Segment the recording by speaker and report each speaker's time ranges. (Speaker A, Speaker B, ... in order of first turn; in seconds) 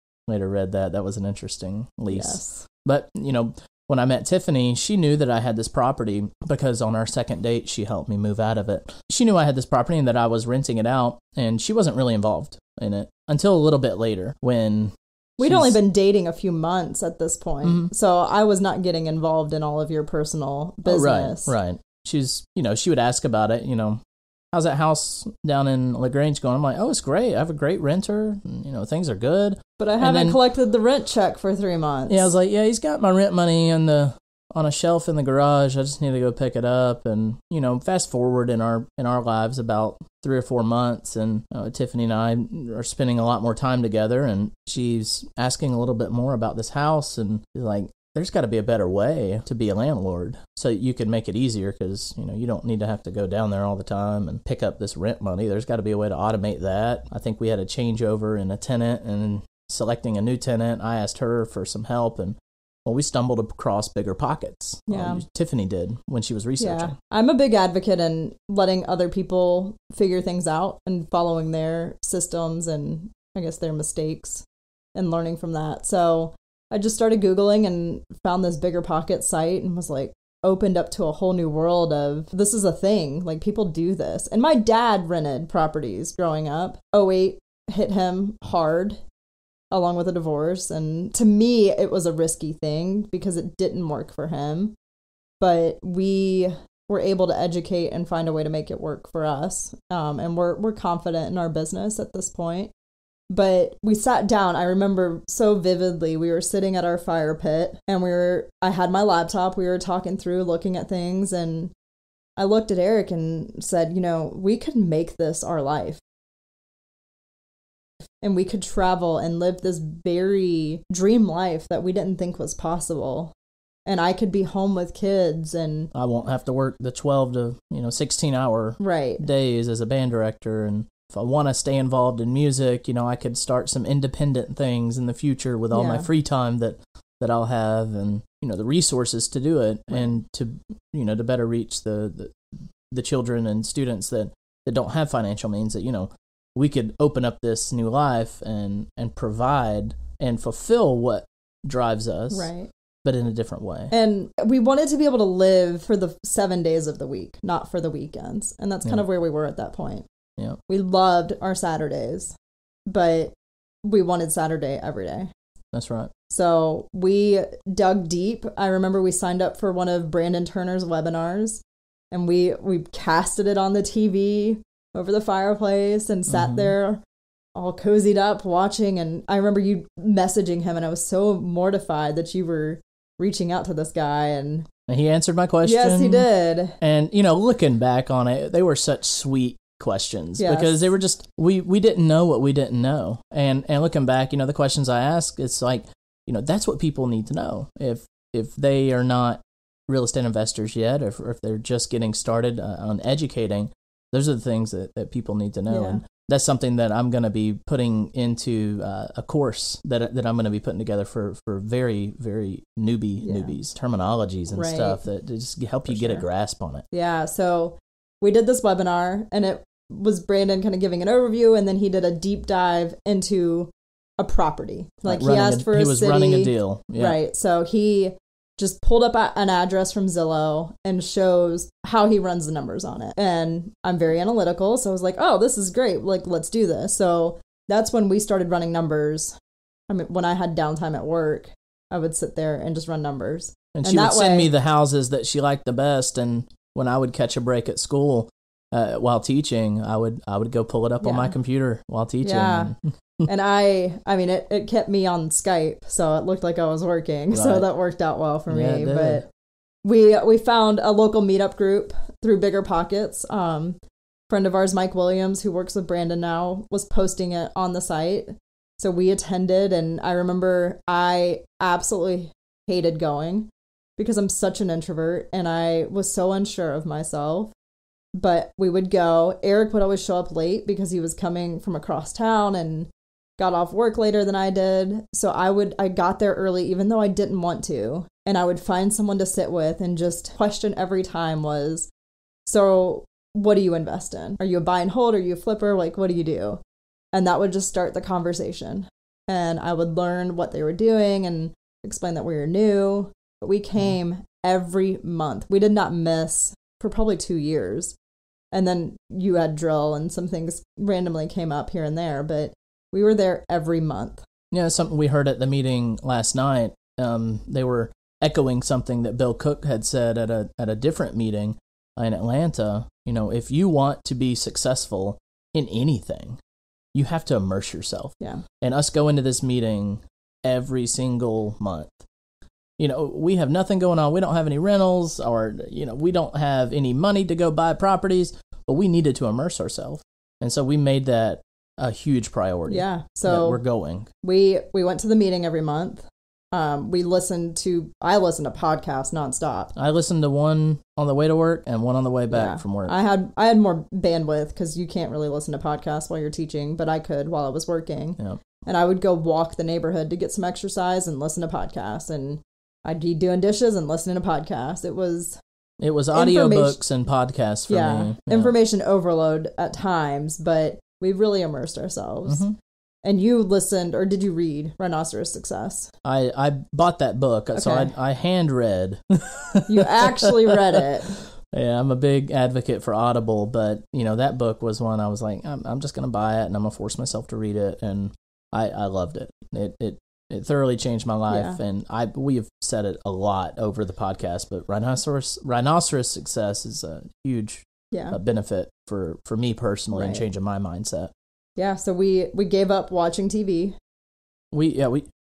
Speaker A: 0.3-15.8, 17.6-17.9, 20.8-24.0, 24.5-30.4, 32.1-67.0, 125.9-152.5, 153.0-153.9, 165.7-166.1, 176.3-176.7, 184.9-216.8, 225.1-227.2, 243.7-253.3, 257.3-257.6, 258.5-259.2, 314.5-326.4, 326.9-332.0, 332.8-344.1, 349.8-352.9, 365.8-368.5, 372.2-372.6, 376.0-401.1, 404.5-405.1
Speaker B: 2.1-2.6, 15.4-21.5, 29.8-32.3, 64.9-65.2, 66.6-89.0, 89.7-94.7, 95.4-102.7, 103.3-111.7, 112.4-116.0, 118.2-123.3, 123.8-125.9, 128.8-129.2, 135.7-136.1, 152.3-152.7, 153.9-160.1, 160.7-162.3, 162.8-165.3, 166.3-177.0, 177.6-184.7, 185.6-186.8, 190.4-190.9, 205.7-206.0, 213.2-213.5, 214.5-215.0, 215.9-216.2, 216.9-239.3, 239.9-244.5, 251.0-251.3, 252.2-252.7, 253.3-259.2, 259.8-263.8, 264.3-277.5, 278.1-291.9, 292.4-296.6, 297.1-307.9, 308.5-314.2, 342.7-343.6, 344.2-349.7, 352.3-365.4, 366.1-366.8, 367.7-372.4, 373.0-375.9, 377.5-377.9, 379.7-381.1, 391.3-391.6, 397.9-398.2, 399.9-400.2, 401.6-403.7